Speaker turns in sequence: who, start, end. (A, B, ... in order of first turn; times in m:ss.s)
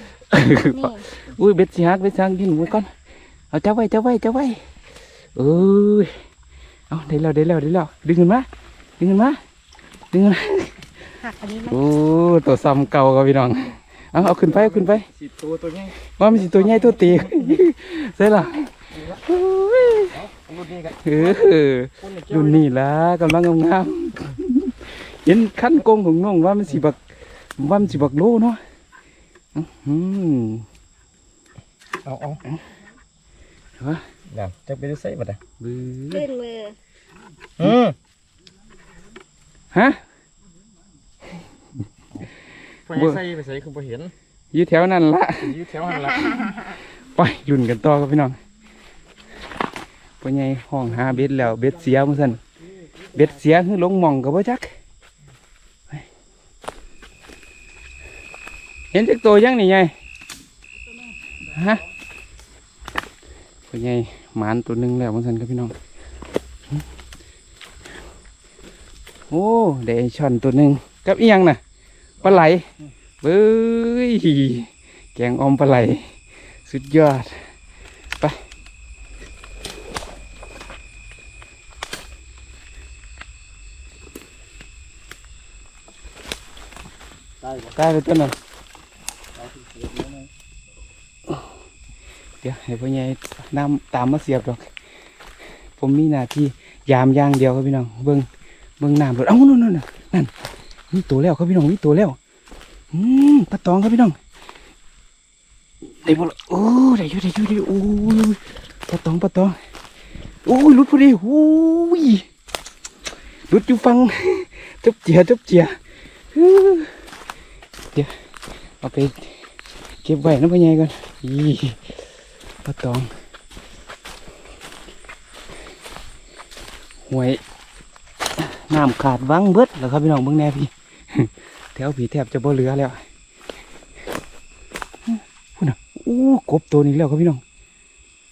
0:00.3-0:02.9 A
0:00.6-0:01.1 B
0:03.5-0:04.6 A
0:05.4-0:06.2 A
0:06.9-0:08.5 A
0:09.0-0:09.4 A
0:10.1-0:10.8 A
0:11.2-0:11.8 B
0:11.7-0:15.1 A
0:14.2-0:17.6 C
0:16.2-0:20.2 A
0:20.1-0:22.6 C
0:21.0-0:27.0 A
0:27.6-0:28.6 A
0:29.6-0:30.7 A
0:32.0-0:32.4 C
0:33.8-0:34.0 A
0:34.3-0:35.4 C
0:35.6-0:36.3 A
0:36.1-0:36.8 B
0:37.6-0:38.0 C
0:39.7-0:40.0 A
0:42.9-0:44.1 C
0:42.9-0:43.2 A
0:44.5-0:45.6 A
0:45.4-0:46.5 C
0:46.1-0:46.7 B
0:47.1-0:48.4 A
0:50.2-0:52.4 A
0:52.9-0:53.3 C
0:53.1-0:54.8 A
0:58.9-0:59.9 A
1:01.5-1:01.8 A
1:03.7-1:05.8 A
1:09.3-1:11.6 A
1:12.2-1:12.7 A
1:13.2-1:16.1 A
1:16.7-1:17.5 A
1:27.4-1:27.9 C
1:27.8-1:28.3 A
1:29.4-1:30.3 C
1:32.4-1:34.7 A
1:35.8-1:38.3 A
1:38.8-1:40.3 A
1:40.9-1:42.2 A
1:42.9-1:44.2 A
1:45.9-1:49.6 A
1:50.4-1:52.3 A
1:53.5-1:55.8 A
1:56.3-1:57.0 A
1:58.8-1:59.4 A
2:00.0-2:02.0 A
2:02.6-2:03.1 A
2:07.1-2:07.4 A
2:08.4-2:13.0 A
2:15.1-2:17.4 A